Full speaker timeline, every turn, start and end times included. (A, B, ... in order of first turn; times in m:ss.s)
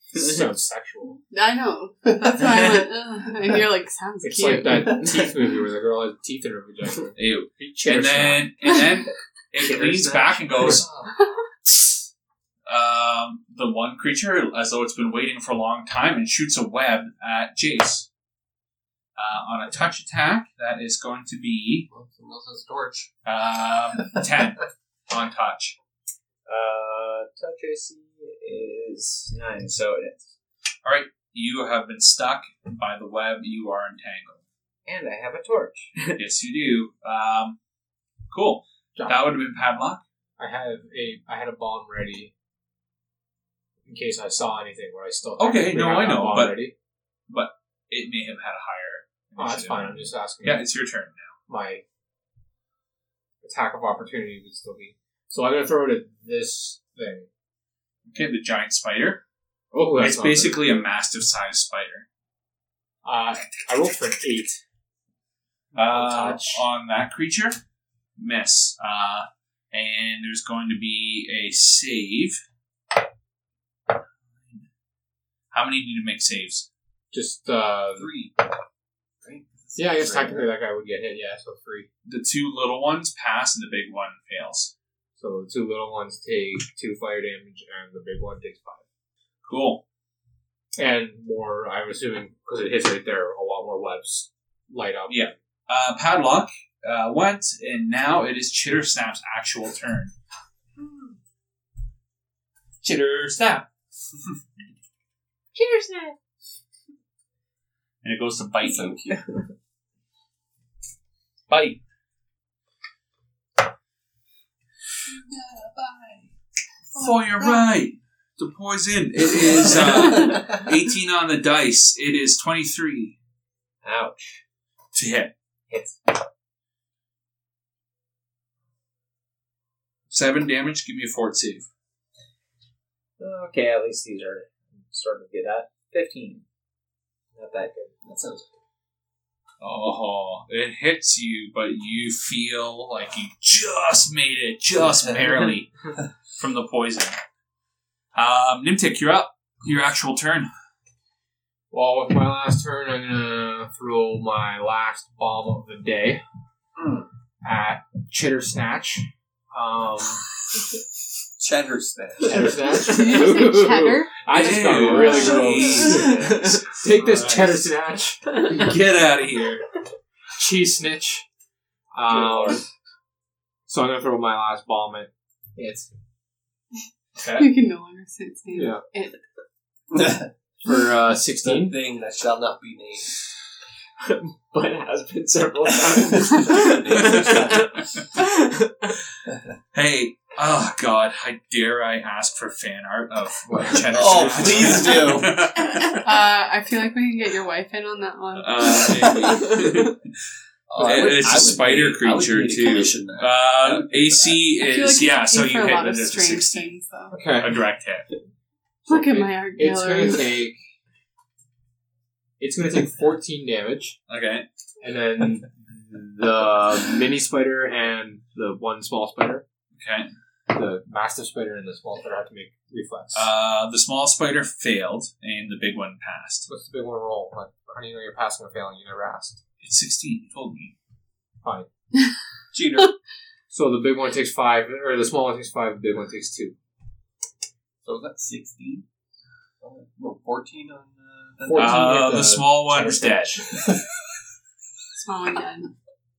0:00.1-0:01.2 A
0:01.3-0:05.0 B
0:04.2-0:08.5 A
0:07.2-0:10.9 C
0:09.6-0:10.4 D
0:10.6-0:11.1 E
0:12.7-0:18.1 C
0:19.2-0:21.9 C
0:21.9-0:23.1 E
0:23.2-0:25.8 C
0:26.4-0:30.3 D
0:30.8-0:34.4 C
0:34.8-0:36.2 D
0:36.2-0:37.6 C
0:38.3-0:40.0 C
0:39.0-0:39.2 A
0:40.4-0:42.3 A
0:43.8-0:46.7 A
0:45.4-0:46.7 C
0:47.3-0:51.3 C
0:49.4-0:50.6 A
0:51.5-0:51.8 A
0:53.4-0:57.3 A
0:58.1-0:59.2 C
0:59.7-1:00.7 A
1:00.0-1:02.0 C
1:03.0-1:04.6 A
1:05.7-1:06.7 A
1:05.7-1:07.6 C
1:08.2-1:12.4 C
1:14.4-1:14.6 C
1:15.5-1:16.7 C
1:17.1-1:18.1 A
1:17.9-1:18.3 E
1:19.2-1:20.5 E
1:19.8-1:21.9 A
1:22.0-1:24.7 C
1:25.2-1:28.8 A
1:29.4-1:29.8 C
1:30.8-1:35.3 A
1:35.1-1:40.1 C
1:42.8-1:43.7 C
1:45.6-1:46.1 B
1:48.0-1:49.0 C
1:48.6-1:49.3 E
1:51.5-1:51.8 C
1:56.9-2:03.2 C
1:57.0-1:57.6 B
2:00.1-2:00.4 B
2:03.8-2:04.4 D
2:04.9-2:05.3 C
2:05.7-2:06.0 D
2:10.1-2:11.7 C
2:13.2-2:16.4 D
2:17.3-2:17.9 D
2:18.0-2:18.6 E
2:19.6-2:27.2 C
2:28.1-2:30.5 C
2:31.7-2:36.2 A
2:36.8-2:37.1 E
2:37.4-2:40.2 A
2:41.4-2:42.8 E
2:42.2-2:48.4 A
2:42.8-2:44.3 B
2:44.3-2:47.6 C
2:44.9-2:45.5 B
2:45.5-2:46.6 E
2:48.4-2:49.6 C
2:50.3-2:51.2 A
2:51.9-2:52.6 A
2:52.1-2:52.6 C
2:53.7-2:55.9 A
2:57.2-2:57.5 C
2:57.3-2:59.2 B
2:58.5-2:58.8 A
2:59.9-3:00.3 E
3:00.6-3:01.8 A
3:01.4-3:03.1 E
3:04.0-3:08.9 D
3:05.9-3:07.7 E
3:07.0-3:07.8 C
3:09.7-3:16.0 C
3:13.5-3:14.8 A
3:13.9-3:15.5 E
3:16.0-3:19.7 B
3:18.4-3:20.1 C
3:18.8-3:19.7 E
3:20.7-3:24.4 E
3:20.8-3:26.7 C
3:24.5-3:27.2 B
3:27.1-3:27.6 A
3:27.4-3:28.1 C
3:28.9-3:30.4 B
3:28.9-3:30.6 A
3:32.4-3:34.0 A
3:34.1-3:34.4 C
3:34.8-3:39.4 A
3:39.7-3:40.1 C
3:40.5-3:43.3 A
3:43.1-3:46.5 C
3:46.5-3:49.4 A
3:49.6-3:50.7 C
3:51.4-3:51.7 A
3:52.5-3:52.9 E
3:53.5-3:56.5 A
3:57.8-3:58.8 E
3:59.6-4:01.8 E
4:01.4-4:03.7 A
4:01.5-4:03.5 C
4:05.0-4:05.7 B